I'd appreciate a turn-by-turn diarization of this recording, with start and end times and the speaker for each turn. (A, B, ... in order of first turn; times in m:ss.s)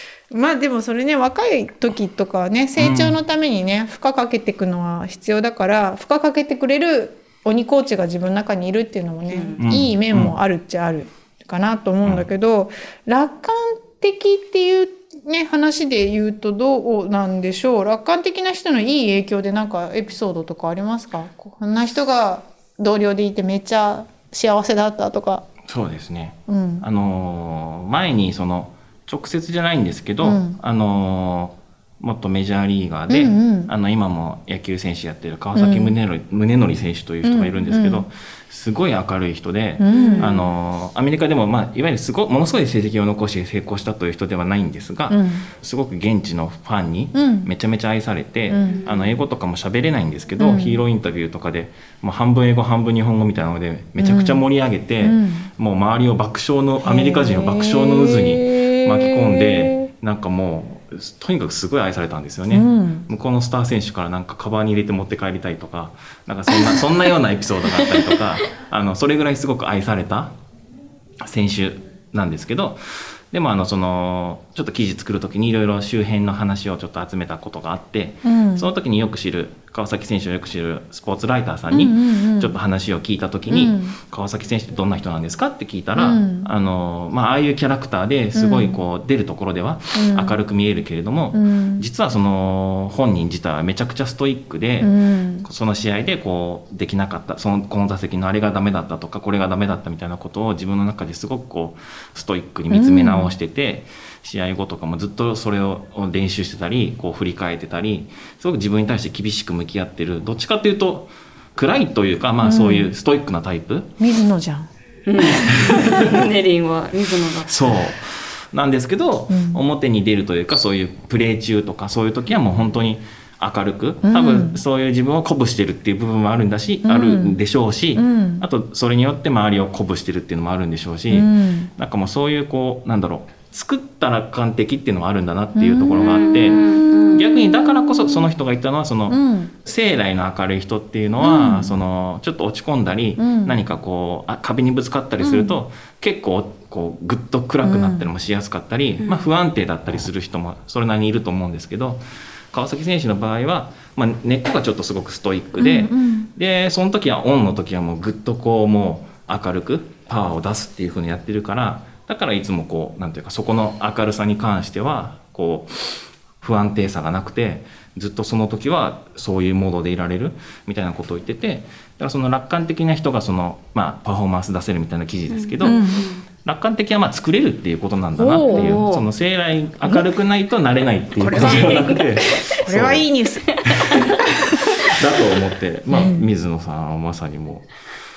0:00.3-0:25.4 A
0:02.8-0:03.2 B
0:09.2-0:09.6 C
0:09.6-0:10.3 B
0:25.7-1:10.3 B
0:26.5-0:26.9 A
0:30.2-0:30.6 A
0:33.1-0:33.7 A
0:35.5-0:36.0 A
0:37.2-0:38.1 A
0:39.8-0:40.3 A
0:39.9-0:40.5 C
0:45.1-0:45.5 A
0:47.1-0:47.5 A
0:48.5-0:48.9 A
0:48.6-0:49.2 C
0:50.4-0:50.8 A
0:54.0-0:54.5 A
0:55.0-0:55.5 A
0:56.8-0:59.9 A
1:02.5-1:03.1 A
1:06.5-1:07.2 C
1:07.7-1:08.3 C
1:11.2-1:34.9 B
1:18.2-1:18.7 A
1:21.7-1:22.6 A
1:23.5-1:24.0 A
1:26.0-1:26.5 A
1:28.3-1:28.8 A
1:29.9-1:30.4 A
1:31.3-1:31.9 A
1:34.8-1:35.5 A
1:35.4-1:53.9 B
1:42.7-1:43.4 A
1:52.4-1:52.9 A
1:54.0-1:54.7 A
1:55.1-1:57.8 C
1:55.2-1:55.6 A
1:55.7-1:55.9 B
1:57.4-2:32.0 B
1:59.3-1:59.6 A
2:02.3-2:02.7 C
2:04.0-2:04.6 A
2:06.8-2:07.4 A
2:07.9-2:08.5 A
2:11.1-2:11.7 A
2:15.6-2:18.3 A
2:16.0-2:17.3 C
2:19.1-2:19.5 A
2:21.2-2:21.8 A
2:23.2-2:23.6 A
2:25.2-2:25.5 A
2:27.6-2:28.1 A
2:29.0-2:29.3 C
2:32.5-2:55.8 B
2:35.6-2:36.3 A
2:55.3-2:56.2 C
2:55.6-2:56.0 A
2:56.4-3:03.1 B
2:58.1-2:58.7 A
2:58.5-2:59.0 C
3:01.2-3:03.5 A
3:01.3-3:02.5 C
3:03.5-3:04.2 C
3:03.7-3:04.2 B
3:04.8-3:07.7 B
3:05.9-3:06.3 A